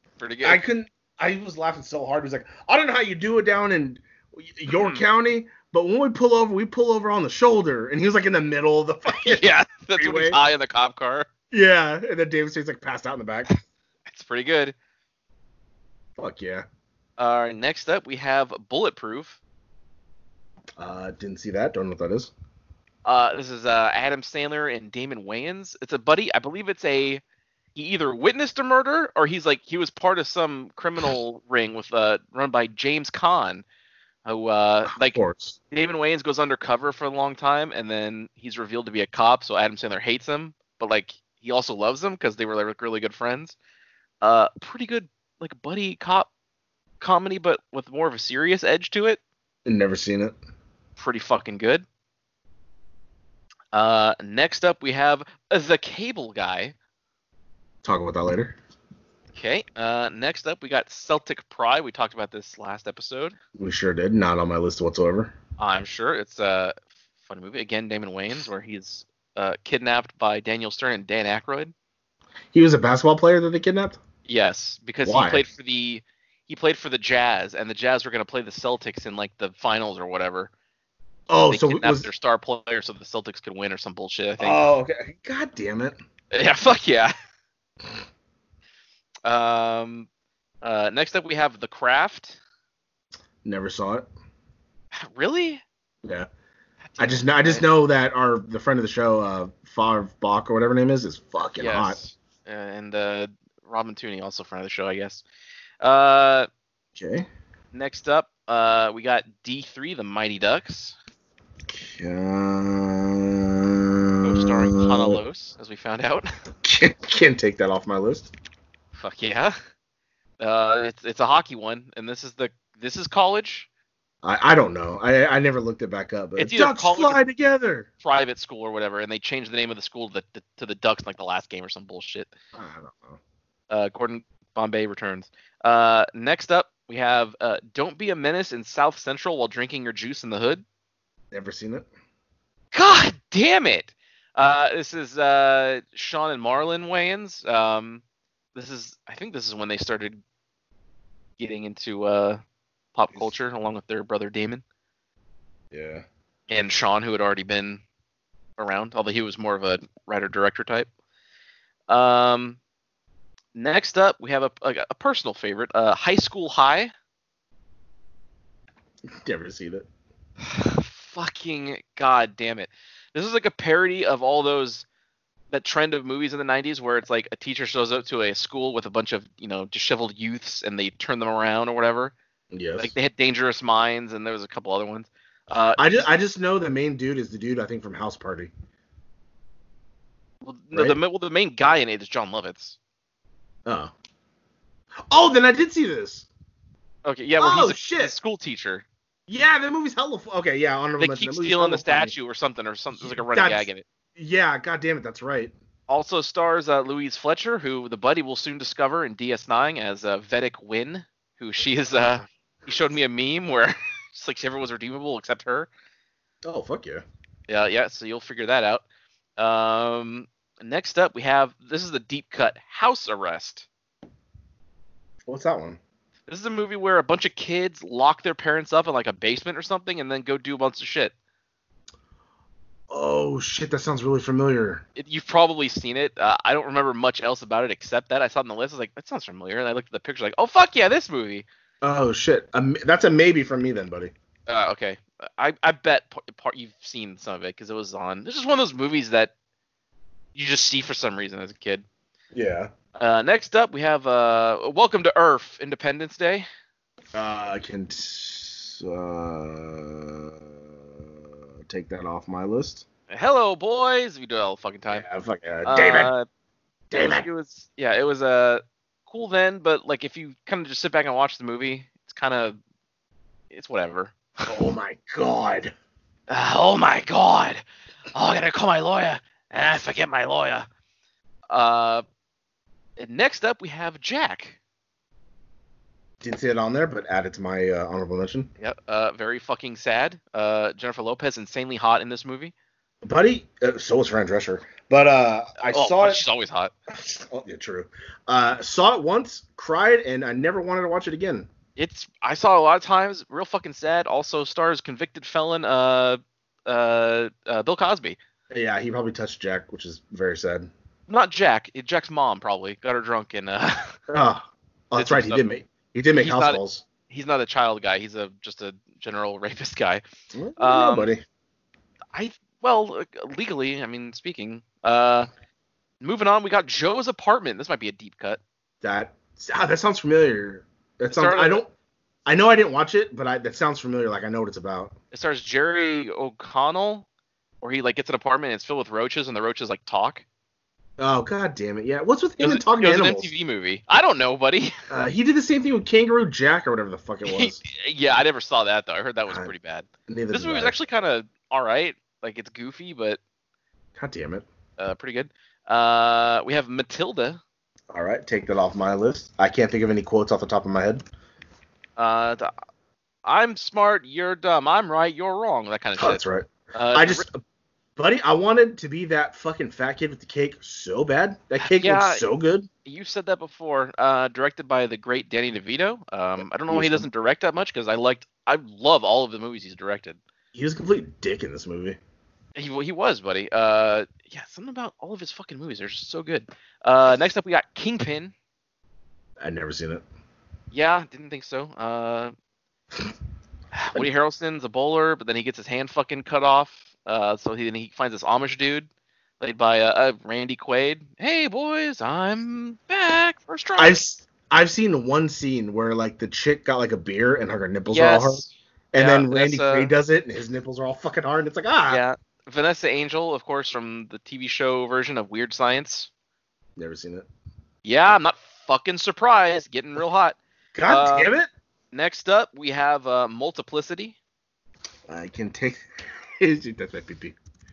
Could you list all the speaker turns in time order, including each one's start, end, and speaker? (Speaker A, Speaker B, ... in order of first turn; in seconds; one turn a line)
Speaker A: 0.2-0.6
Speaker B: 0.4-10.4
Speaker A: 4.7-5.0
Speaker A: 9.1-11.3
Speaker B: 11.5-13.5
Speaker A: 14.1-14.8
Speaker B: 16.2-16.6
Speaker A: 17.2-19.4
Speaker B: 20.8-22.3
Speaker A: 23.1-27.2
Speaker A: 27.8-33.6
Speaker A: 34.2-35.2
Speaker B: 34.9-35.6
Speaker A: 35.7-43.6
Speaker A: 44.2-46.3
Speaker A: 47.0-49.2
Speaker B: 49.6-50.4
Speaker A: 51.0-51.9
Speaker A: 53.7-56.8
Speaker B: 57.8-58.6
Speaker A: 59.3-63.4
Speaker B: 63.6-65.3
Speaker A: 65.6-71.7
Speaker B: 72.5-74.0
Speaker A: 74.3-80.5
Speaker B: 75.0-75.5
Speaker B: 81.3-82.1
Speaker A: 81.5-84.6
Speaker B: 84.4-86.0
Speaker A: 86.3-87.1
Speaker A: 89.2-90.1
Speaker A: 90.6-92.4
Speaker B: 93.4-94.1
Speaker A: 94.9-95.6
Speaker A: 97.0-97.6
Speaker B: 97.0-102.0
Speaker A: 101.6-105.2
Speaker A: 105.8-106.5
Speaker B: 107.0-107.3
Speaker A: 107.7-111.0
Speaker B: 111.7-115.2
Speaker A: 114.2-116.3
Speaker B: 116.6-118.3
Speaker A: 119.0-119.6
Speaker A: 120.4-123.7
Speaker B: 124.2-127.9
Speaker A: 126.4-127.2
Speaker A: 128.0-132.3
Speaker B: 132.5-133.2
Speaker A: 133.7-140.6
Speaker B: 141.3-141.9
Speaker A: 142.7-148.0
Speaker A: 148.6-150.2
Speaker A: 151.4-152.4
Speaker A: 152.9-154.6
Speaker B: 155.7-156.1
Speaker A: 156.5-157.8
Speaker A: 158.6-160.9
Speaker A: 161.9-162.6
Speaker A: 163.6-166.9
Speaker B: 169.1-169.9
Speaker A: 170.4-174.8
Speaker A: 175.5-182.1
Speaker B: 182.5-182.9
Speaker A: 182.8-186.0
Speaker B: 185.8-188.5
Speaker A: 190.4-192.8
Speaker B: 190.7-191.0
Speaker B: 193.7-193.9
Speaker B: 195.1-196.3
Speaker A: 197.1-198.8
Speaker B: 197.4-198.2
Speaker B: 199.3-202.1
Speaker A: 201.0-203.8
Speaker B: 202.9-205.5
Speaker A: 205.9-215.7
Speaker B: 216.4-217.0
Speaker A: 217.5-218.8
Speaker A: 219.4-223.7
Speaker B: 225.3-225.8
Speaker A: 226.3-231.1
Speaker B: 232.9-234.8
Speaker A: 235.0-241.5
Speaker B: 241.8-244.1
Speaker A: 244.5-249.3
Speaker A: 250.3-251.8
Speaker B: 252.3-252.7
Speaker A: 253.0-256.5
Speaker B: 257.1-262.9
Speaker A: 263.1-265.1
Speaker B: 264.9-266.1
Speaker A: 265.7-266.3
Speaker B: 266.9-267.3
Speaker A: 267.0-272.6
Speaker A: 273.5-274.5
Speaker B: 274.5-275.7
Speaker A: 276.3-280.7
Speaker A: 281.5-282.0
Speaker A: 283.0-284.6
Speaker B: 286.2-288.5
Speaker A: 288.6-292.5
Speaker B: 293.0-296.2
Speaker A: 295.6-296.7
Speaker B: 296.9-301.5
Speaker A: 301.8-308.2
Speaker B: 308.5-310.7
Speaker A: 311.1-313.9
Speaker B: 314.1-316.9
Speaker A: 314.9-315.5
Speaker A: 316.1-320.0
Speaker B: 320.3-321.2
Speaker A: 320.6-321.1
Speaker A: 322.1-325.3
Speaker A: 326.0-328.4
Speaker B: 328.8-331.7
Speaker A: 331.1-331.6
Speaker B: 332.3-334.9
Speaker A: 335.1-337.1
Speaker A: 337.6-340.2
Speaker B: 341.0-343.3
Speaker A: 342.4-344.7
Speaker B: 344.9-347.6
Speaker A: 347.3-353.2
Speaker B: 350.1-350.8
Speaker B: 354.0-354.5
Speaker A: 354.8-357.4
Speaker B: 357.9-361.0
Speaker A: 362.0-362.5
Speaker A: 363.2-366.2
Speaker B: 366.0-367.4
Speaker A: 366.7-367.3
Speaker B: 368.0-372.7
Speaker A: 371.6-372.2
Speaker A: 372.9-380.2
Speaker B: 376.7-377.1
Speaker B: 380.5-382.0
Speaker A: 382.6-388.3
Speaker B: 389.4-390.0
Speaker A: 390.7-392.3
Speaker A: 393.7-398.9
Speaker A: 399.4-404.0
Speaker B: 403.8-412.0
Speaker A: 407.9-409.9
Speaker A: 411.9-416.1
Speaker B: 416.8-417.3
Speaker A: 417.8-421.3
Speaker B: 420.8-421.5
Speaker A: 421.9-424.2
Speaker B: 425.1-425.8
Speaker B: 426.4-427.4